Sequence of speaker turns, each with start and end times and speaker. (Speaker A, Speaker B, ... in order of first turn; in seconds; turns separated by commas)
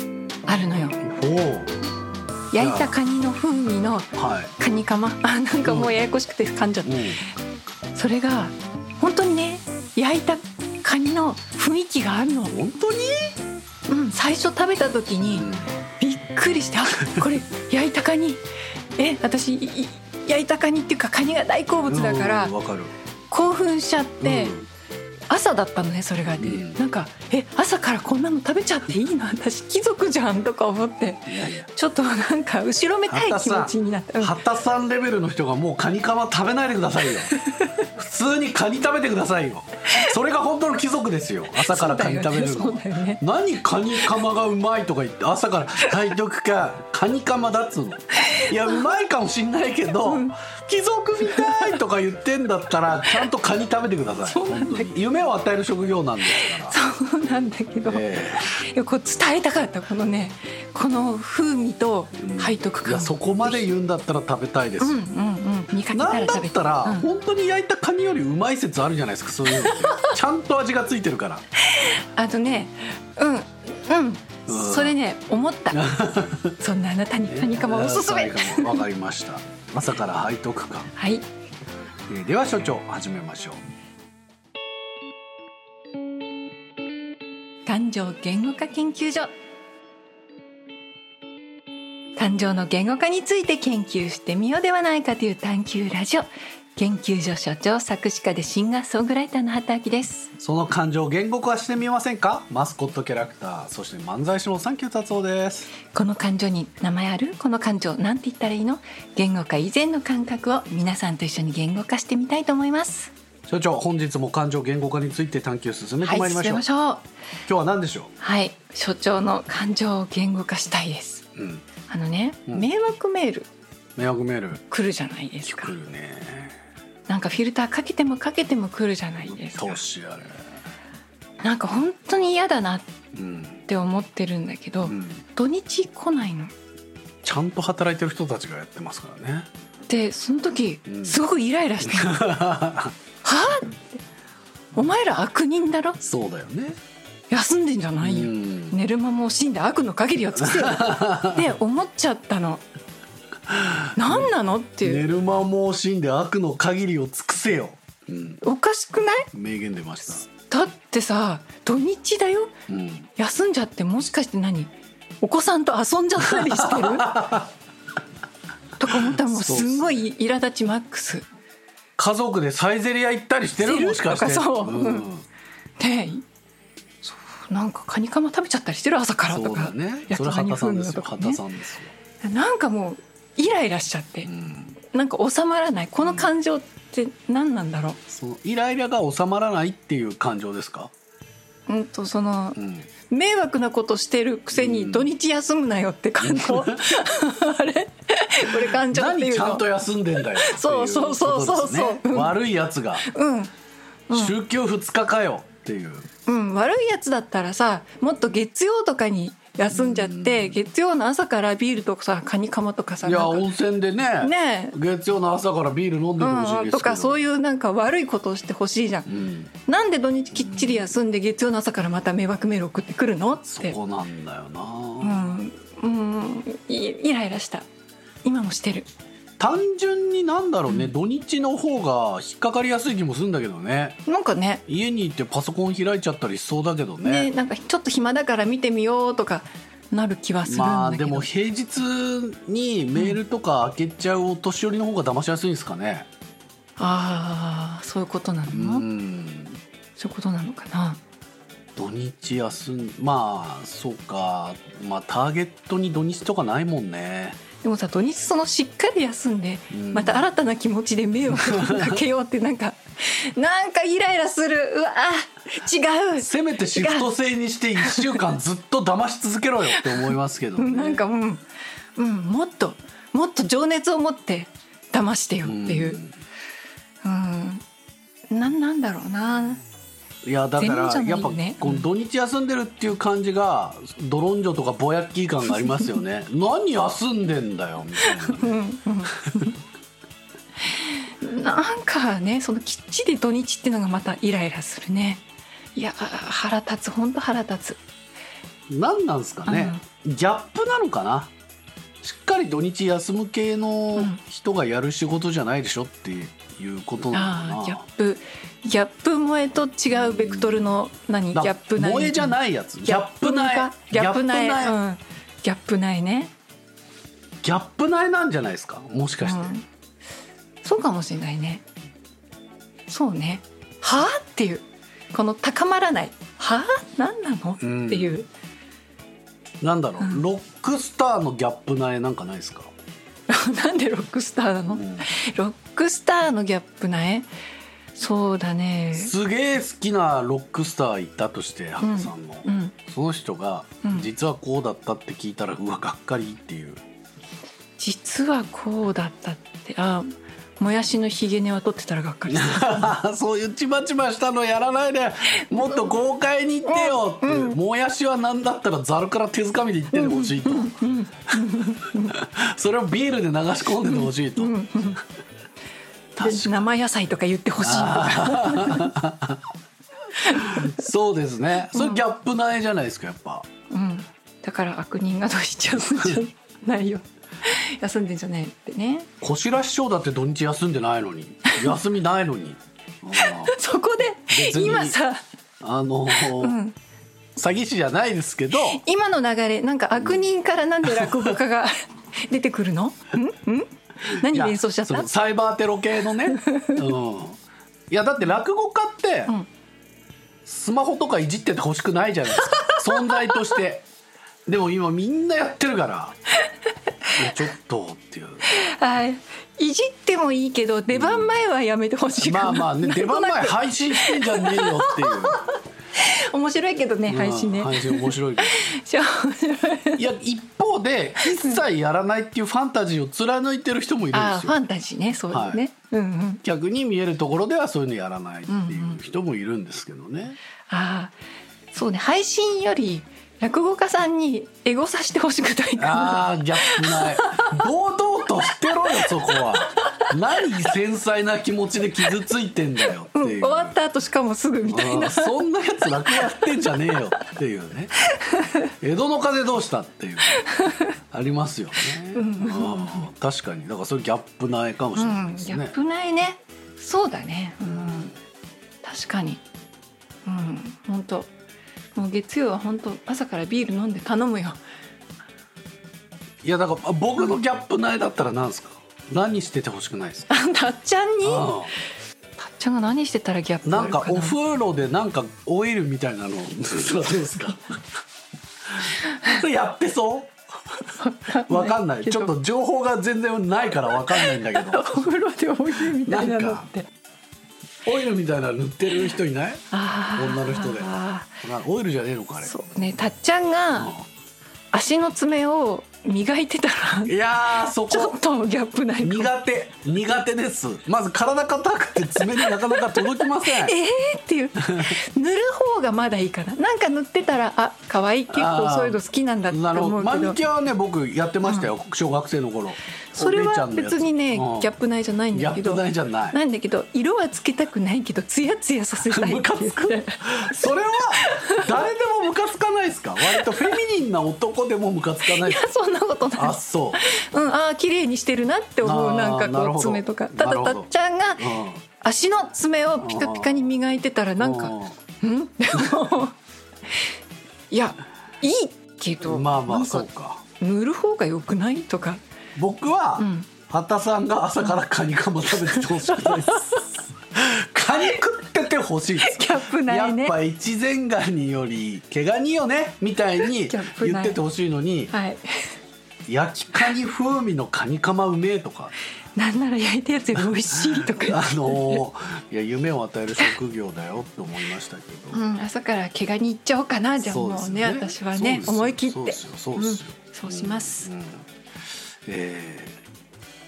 Speaker A: 0.5-1.0, Speaker B: 1.0-1.7, Speaker A: 2.5-7.2, Speaker B: 2.6-3.0, Speaker B: 4.2-4.5, Speaker B: 5.6-6.0, Speaker B: 6.8-7.2, Speaker A: 7.9-12.5, Speaker B: 12.5-13.3, Speaker A: 13.9-18.4, Speaker B: 15.3-15.7, Speaker B: 17.1-17.4, Speaker A: 19.0-22.5, Speaker B: 21.9-22.9, Speaker A: 23.3-24.5, Speaker B: 24.2-24.7, Speaker A: 25.3-34.3, Speaker B: 26.4-26.8, Speaker B: 31.3-31.7, Speaker B: 33.1-37.4, Speaker A: 37.3-37.8, Speaker B: 37.9-56.8, Speaker A: 41.6-43.2, Speaker A: 48.2-48.8, Speaker A: 50.0-50.3, Speaker A: 51.3-51.8, Speaker A: 54.3-54.9, Speaker A: 56.3-58.0, Speaker B: 57.9-58.5, Speaker A: 58.6-63.6, Speaker B: 62.2-65.0, Speaker A: 64.8-67.1, Speaker B: 65.9-71.4, Speaker A: 69.5-70.1, Speaker A: 71.6-75.8, Speaker B: 74.5-74.9, Speaker B: 75.7-76.5, Speaker A: 76.6-78.8, Speaker B: 77.2-80.9, Speaker A: 80.9-81.3, Speaker B: 82.1-83.6, Speaker A: 87.7-89.3, Speaker A: 92.2-100.3, Speaker B: 100.4-105.7, Speaker A: 105.9-113.1, Speaker B: 113.5-116.6, Speaker A: 116.0-117.0, Speaker B: 117.5-118.1, Speaker A: 118.2-121.2, Speaker B: 121.3-121.7, Speaker A: 121.9-123.5, Speaker B: 124.0-124.6, Speaker A: 124.7-125.7, Speaker B: 125.4-126.6, Speaker A: 127.1-129.8, Speaker B: 129.5-130.4, Speaker A: 131.4-132.9, Speaker B: 133.1-133.6, Speaker A: 133.7-136.5, Speaker B: 134.8-135.2, Speaker B: 137.2-139.5, Speaker A: 139.9-142.3, Speaker B: 140.9-141.2, Speaker B: 141.9-142.9, Speaker A: 143.2-144.0, Speaker A: 144.7-146.0, Speaker B: 146.0-146.8, Speaker A: 147.3-152.6, Speaker B: 148.0-148.8, Speaker B: 150.3-151.4, Speaker B: 153.5-154.3, Speaker A: 153.9-155.0, Speaker B: 154.8-158.4, Speaker A: 158.4-159.3, Speaker B: 159.3-160.3, Speaker A: 160.5-162.5, Speaker B: 162.7-163.1, Speaker A: 163.2-167.1, Speaker B: 166.2-167.5, Speaker A: 168.8-171.2, Speaker B: 168.9-170.0, Speaker B: 172.0-175.2, Speaker A: 173.6-175.1, Speaker A: 175.8-176.2, Speaker A: 177.0-181.4, Speaker B: 179.3-181.9, Speaker A: 182.2-184.3, Speaker B: 184.2-184.8, Speaker A: 184.8-188.0, Speaker B: 188.1-190.9, Speaker A: 191.7-199.6, Speaker B: 192.6-192.9, Speaker B: 194.6-195.1, Speaker B: 196.2-197.0, Speaker B: 198.6-203.1, Speaker A: 200.2-202.4, Speaker A: 203.1-203.5, Speaker A: 204.1-204.3, Speaker B: 204.1-206.1, Speaker A: 206.3-213.4, Speaker B: 209.7-210.6, Speaker B: 213.0-217.2, Speaker A: 214.2-214.8, Speaker A: 216.2-219.1, Speaker B: 219.1-219.5, Speaker A: 219.7-223.8, Speaker B: 220.3-220.8, Speaker B: 223.5-225.3, Speaker A: 225.0-227.7, Speaker A: 228.2-228.9, Speaker B: 229.4-234.0, Speaker A: 234.1-234.6, Speaker B: 234.7-237.3, Speaker A: 237.0-241.3, Speaker B: 240.4-246.1, Speaker A: 246.8-248.8, Speaker B: 248.5-249.6, Speaker A: 250.0-251.0, Speaker B: 251.8-257.4, Speaker A: 257.6-267.1, Speaker B: 259.7-260.2, Speaker B: 261.3-262.0, Speaker B: 266.2-271.0, Speaker A: 267.8-268.2, Speaker A: 269.7-271.4, Speaker A: 271.9-276.0, Speaker B: 275.4-276.1, Speaker A: 277.0-277.6, Speaker A: 278.3-279.6, Speaker B: 280.2-288.6, Speaker A: 280.6-281.9, Speaker A: 285.5-285.9, Speaker A: 288.0-289.6, Speaker A: 290.6-295.2, Speaker A: 295.7-297.8, Speaker B: 298.7-301.3, Speaker A: 299.5-299.8, Speaker B: 302.0-307.8, Speaker A: 307.1-316.3, Speaker B: 310.0-310.6, Speaker B: 311.3-314.8, Speaker B: 317.4-319.6, Speaker A: 319.2-319.6, Speaker A: 320.6-321.6, Speaker A: 322.9-328.3, Speaker B: 327.6-328.1, Speaker B: 329.6-332.7, Speaker A: 330.0-330.2, Speaker A: 333.3-337.3, Speaker B: 334.7-335.1, Speaker A: 337.9-339.1, Speaker B: 338.9-346.8, Speaker A: 341.8-342.7, Speaker A: 347.8-353.0, Speaker B: 352.3-360.7, Speaker A: 355.4-355.9, Speaker A: 356.6-357.6, Speaker A: 359.9-362.1, Speaker B: 361.3-365.0, Speaker A: 363.9-365.0, Speaker B: 366.1-366.7, Speaker A: 366.2-368.9, Speaker B: 367.6-369.4, Speaker A: 370.2-370.8, Speaker B: 370.3-373.4, Speaker A: 371.7-372.0, Speaker A: 373.7-379.1, Speaker B: 379.2-383.6, Speaker A: 383.1-385.2, Speaker B: 384.3-385.0, Speaker B: 385.6-386.6, Speaker A: 386.1-386.8, Speaker B: 387.4-388.8, Speaker A: 388.6-395.1, Speaker B: 390.8-391.3, Speaker B: 394.2-397.4, Speaker A: 396.3-396.8, Speaker B: 397.9-399.3, Speaker B: 400.4-403.9, Speaker A: 402.3-403.6, Speaker B: 404.4-406.2, Speaker B: 407.1-408.4, Speaker A: 408.4-420.0, Speaker B: 410.9-411.3, Speaker B: 412.2-415.4, Speaker B: 417.1-418.7, Speaker B: 420.0-424.5, Speaker A: 421.4-421.6, Speaker A: 424.1-426.4, Speaker B: 425.3-425.6, Speaker B: 426.4-430.4, Speaker A: 428.5-429.0, Speaker A: 430.7-431.1, Speaker A: 431.7-437.6, Speaker B: 435.8-443.8, Speaker A: 439.3-439.8, Speaker A: 443.1-445.3, Speaker B: 444.7-447.9, Speaker A: 446.1-447.0, Speaker A: 448.1-448.7, Speaker B: 448.8-450.4, Speaker A: 450.3-450.8, Speaker B: 451.1-455.7, Speaker A: 452.1-453.1, Speaker A: 454.9-458.1, Speaker B: 457.7-458.1, Speaker A: 458.8-459.4, Speaker A: 460.2-461.3, Speaker A: 461.9-464.6, Speaker B: 466.4-470.3, Speaker A: 470.3-471.5, Speaker B: 471.2-471.7, Speaker A: 472.4-474.4, Speaker B: 473.6-477.7, Speaker B: 478.8-480.3, Speaker A: 481.0-482.3, Speaker B: 481.5-485.1, Speaker A: 483.9-486.9, Speaker B: 485.7-486.7, Speaker B: 487.8-489.6, Speaker A: 489.7-491.3, Speaker B: 490.1-490.9, Speaker B: 491.4-492.5, Speaker A: 492.4-493.9, Speaker B: 493.8-494.0, Speaker A: 494.7-497.1, Speaker B: 497.1-498.1, Speaker A: 497.7-499.3, Speaker B: 499.0-503.7, Speaker A: 502.2-510.4, Speaker B: 504.6-505.0, Speaker B: 508.3-509.0, Speaker B: 509.5-514.7, Speaker A: 511.4-511.7, Speaker A: 513.1-521.7, Speaker B: 515.3-516.4, Speaker B: 519.1-525.6, Speaker A: 523.3-523.8, Speaker A: 525.2-531.5, Speaker B: 526.4-527.0, Speaker B: 528.8-531.8, Speaker A: 532.0-536.3, Speaker B: 533.0-533.7, Speaker B: 534.4-535.0, Speaker B: 535.7-536.1, Speaker A: 537.7-540.0, Speaker B: 539.2-540.4, Speaker A: 540.6-542.2, Speaker B: 542.5-555.1, Speaker A: 543.2-543.5, Speaker A: 545.6-546.8, Speaker A: 549.2-550.3, Speaker A: 553.5-554.4, Speaker A: 555.1-555.7, Speaker B: 556.3-558.9, Speaker A: 559.4-562.0, Speaker B: 560.8-565.4, Speaker A: 565.3-571.1, Speaker B: 567.2-571.5, Speaker B: 572.2-573.0